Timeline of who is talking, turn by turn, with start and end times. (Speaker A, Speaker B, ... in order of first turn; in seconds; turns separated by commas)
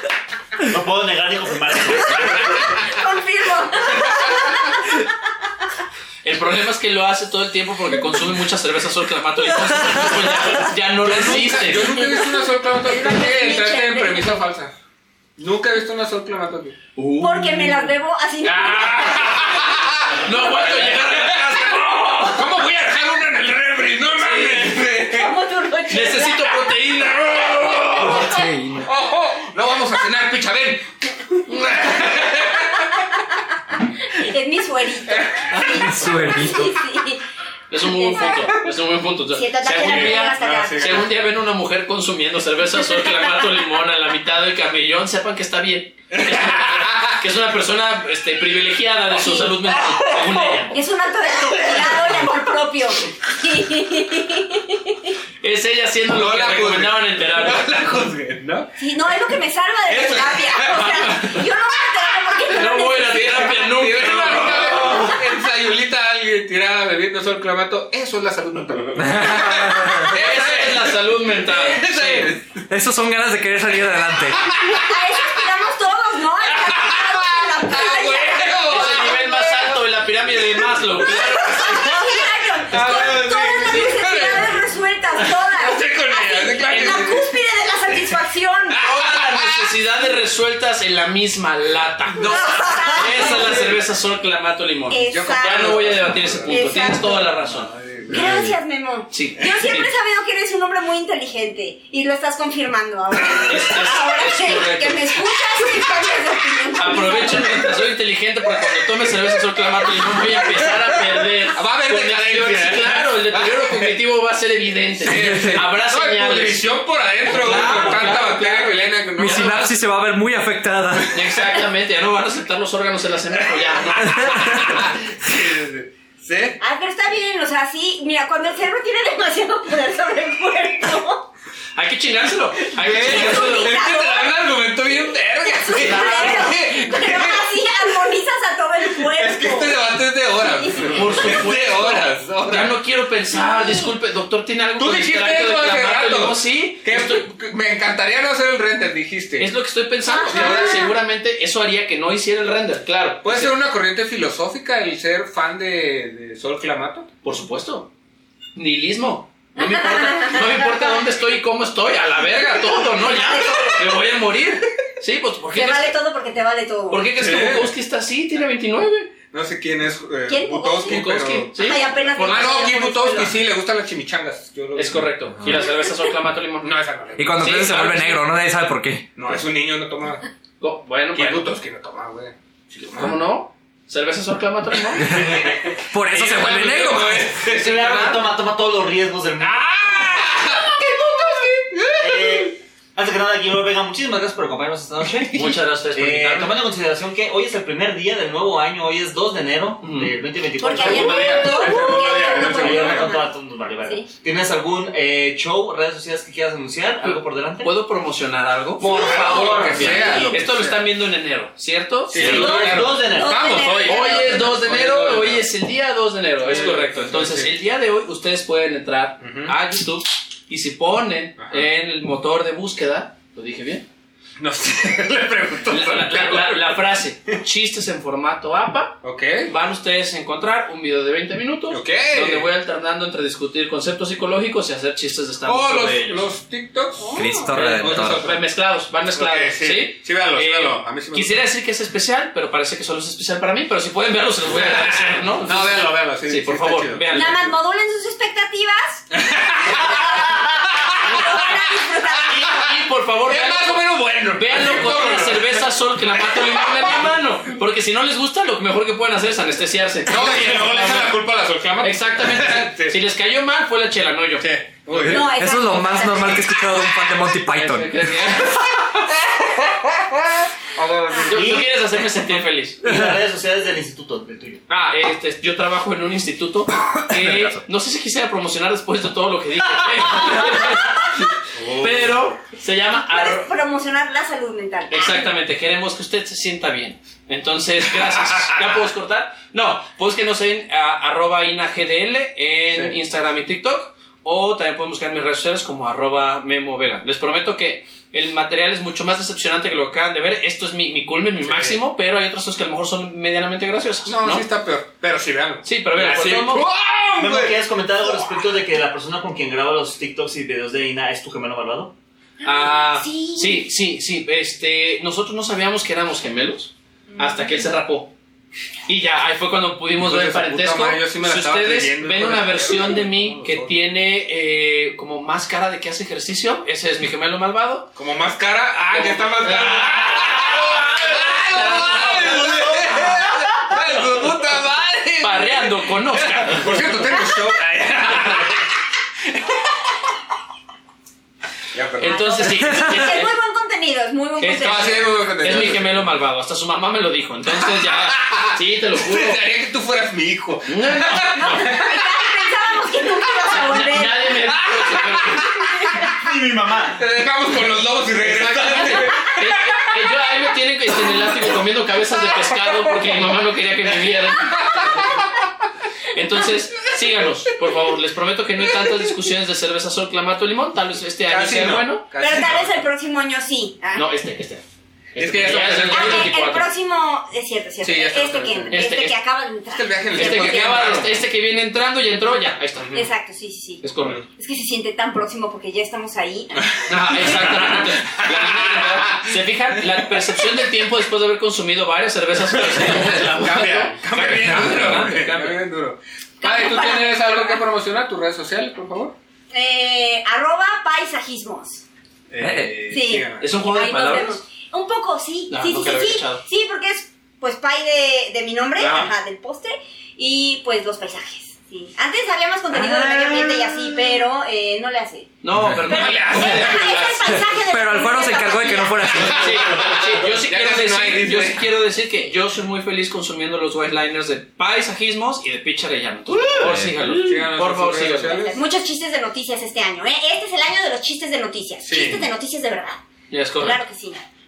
Speaker A: 0.7-2.5, Speaker B: 2.5-5.1, Speaker C: 6.2-11.9, Speaker D: 11.0-14.7, Speaker B: 11.3-14.4, Speaker D: 15.4-16.8, Speaker C: 16.9-17.9, Speaker B: 17.2-19.8, Speaker D: 18.4-21.6, Speaker C: 20.2-22.5, Speaker D: 22.3-25.3, Speaker C: 24.1-24.9, Speaker B: 25.1-26.6, Speaker C: 25.9-28.4, Speaker D: 27.6-28.2, Speaker E: 28.1-28.9, Speaker D: 28.8-32.9, Speaker B: 32.7-33.4, Speaker B: 34.1-37.2, Speaker D: 35.1-35.8, Speaker C: 35.5-35.8, Speaker E: 35.7-36.7, Speaker C: 37.7-50.8, Speaker B: 37.8-38.5, Speaker B: 39.3-41.0, Speaker D: 39.6-41.1, Speaker D: 46.1-47.2, Speaker B: 49.1-50.1, Speaker B: 50.6-55.1, Speaker C: 55.4-57.9, Speaker D: 56.1-58.7, Speaker B: 58.8-63.5, Speaker D: 59.9-61.4, Speaker C: 62.5-65.2, Speaker D: 63.0-72.4, Speaker E: 69.2-70.0, Speaker C: 70.0-72.3, Speaker E: 72.5-74.5, Speaker D: 74.4-75.0, Speaker B: 74.7-79.7, Speaker D: 76.4-79.6, Speaker C: 78.7-82.1, Speaker D: 80.7-81.5, Speaker B: 81.0-88.8, Speaker D: 82.7-84.7, Speaker C: 82.8-83.1, Speaker D: 85.2-87.3, Speaker C: 86.6-87.2, Speaker D: 88.7-89.7, Speaker C: 88.7-97.7, Speaker B: 92.2-93.7, Speaker D: 93.2-93.7, Speaker B: 94.9-97.3, Speaker D: 95.0-96.8, Speaker D: 97.4-98.4, Speaker B: 98.1-107.6, Speaker C: 99.1-99.9, Speaker C: 103.4-105.2, Speaker C: 106.7-116.7, Speaker D: 111.5-113.9, Speaker D: 115.0-119.7, Speaker C: 117.2-119.5, Speaker E: 119.2-121.2, Speaker C: 121.1-124.9, Speaker D: 123.6-126.6, Speaker B: 126.6-131.3, Speaker C: 131.7-133.8, Speaker D: 132.8-137.5, Speaker B: 132.9-134.3, Speaker B: 135.6-139.8, Speaker C: 135.8-136.4, Speaker D: 138.9-142.8, Speaker B: 140.4-141.3, Speaker C: 140.8-147.3, Speaker B: 143.3-143.9, Speaker D: 144.8-149.5, Speaker C: 149.4-153.5, Speaker B: 150.0-150.9, Speaker D: 150.3-150.7, Speaker D: 153.2-157.1, Speaker C: 157.2-157.9, Speaker C: 158.6-165.9, Speaker B: 159.6-160.9, Speaker B: 162.7-164.0, Speaker B: 165.5-167.1, Speaker C: 166.9-169.1, Speaker D: 167.1-167.7, Speaker D: 169.3-175.6, Speaker B: 170.3-173.4, Speaker C: 170.8-172.5, Speaker C: 174.8-176.7, Speaker B: 175.5-175.9, Speaker D: 176.6-177.5, Speaker E: 177.2-179.1, Speaker C: 177.4-178.2, Speaker D: 179.2-180.2, Speaker C: 180.6-181.5, Speaker D: 181.1-182.3, Speaker C: 182.7-185.4, Speaker D: 182.9-183.2, Speaker D: 185.0-187.6, Speaker E: 185.1-185.4, Speaker E: 185.9-187.3, Speaker C: 186.4-188.3, Speaker A: 187.4-190.2, Speaker D: 189.4-192.5, Speaker A: 192.0-207.7, Speaker C: 195.3-196.6, Speaker C: 199.8-200.1, Speaker B: 200.6-204.1, Speaker D: 200.7-203.2, Speaker C: 207.0-213.0, Speaker D: 208.8-210.8, Speaker B: 208.8-210.4, Speaker A: 209.2-210.2, Speaker D: 212.1-215.5, Speaker E: 212.1-212.9, Speaker B: 212.2-214.6, Speaker A: 212.3-213.7, Speaker C: 213.7-223.8, Speaker D: 216.4-217.5, Speaker D: 219.2-219.6, Speaker D: 221.4-221.7, Speaker D: 224.4-226.8, Speaker C: 225.7-236.2, Speaker D: 229.0-229.5, Speaker D: 231.7-232.5, Speaker D: 235.4-238.4, Speaker B: 236.9-237.5, Speaker E: 237.2-238.3, Speaker C: 237.5-247.5, Speaker D: 239.2-241.4, Speaker D: 244.5-247.4, Speaker B: 247.1-249.1, Speaker D: 249.1-257.1, Speaker B: 249.8-250.3, Speaker B: 251.0-252.4, Speaker C: 252.2-261.2, Speaker D: 260.1-262.9, Speaker C: 261.8-264.4, Speaker D: 264.4-265.3, Speaker E: 264.9-267.9, Speaker B: 265.1-266.6, Speaker C: 267.5-268.7, Speaker D: 269.0-271.6, Speaker C: 271.2-272.9, Speaker A: 271.3-271.7, Speaker A: 272.8-274.6, Speaker E: 272.8-273.1, Speaker C: 274.7-283.5, Speaker E: 277.2-277.5, Speaker D: 281.5-282.3, Speaker B: 282.9-285.3, Speaker C: 284.9-304.5, Speaker D: 288.1-288.8, Speaker D: 292.7-292.9, Speaker D: 301.4-301.8, Speaker D: 304.0-307.6, Speaker C: 305.6-306.7, Speaker A: 307.2-311.9, Speaker B: 312.4-313.6, Speaker C: 312.4-318.1, Speaker B: 317.1-317.6, Speaker C: 318.9-327.9, Speaker D: 320.0-323.7, Speaker D: 327.9-338.6, Speaker C: 328.9-333.1, Speaker C: 335.2-336.9, Speaker D: 341.7-342.5, Speaker C: 342.0-343.3, Speaker B: 342.0-345.6, Speaker C: 344.4-349.4, Speaker D: 344.4-346.0, Speaker D: 347.5-352.3, Speaker C: 350.6-351.6, Speaker B: 351.4-354.3, Speaker C: 353.5-355.5, Speaker D: 354.5-355.7, Speaker A: 356.1-357.0, Speaker D: 356.9-359.9, Speaker A: 358.1-358.9, Speaker C: 358.6-364.6, Speaker D: 362.3-362.9, Speaker D: 364.4-365.4, Speaker C: 366.1-372.1, Speaker D: 371.3-372.8, Speaker B: 372.2-374.1, Speaker C: 373.9-374.6, Speaker D: 375.1-376.4, Speaker C: 375.1-376.7, Speaker B: 375.9-381.0, Speaker D: 377.8-379.1, Speaker C: 378.7-379.1, Speaker D: 379.7-381.2, Speaker C: 380.1-382.9, Speaker D: 382.8-383.1, Speaker B: 382.9-386.7, Speaker C: 383.8-384.2, Speaker C: 386.9-395.6, Speaker D: 387.4-389.3, Speaker D: 392.5-399.1, Speaker E: 394.5-395.2, Speaker B: 396.4-397.6, Speaker B: 399.5-401.8, Speaker D: 402.3-403.5, Speaker E: 402.4-402.7, Speaker B: 402.9-415.3, Speaker C: 403.4-404.4, Speaker C: 405.5-406.4, Speaker C: 408.8-409.1, Speaker D: 412.9-413.6, Speaker C: 415.4-417.0, Speaker E: 415.6-415.8, Speaker D: 415.9-417.4, Speaker B: 415.9-419.5, Speaker E: 417.2-419.7, Speaker D: 419.1-421.7, Speaker C: 419.4-428.5, Speaker D: 426.6-428.6, Speaker B: 428.2-433.0, Speaker D: 431.8-432.3, Speaker C: 433.3-433.8, Speaker B: 433.6-434.2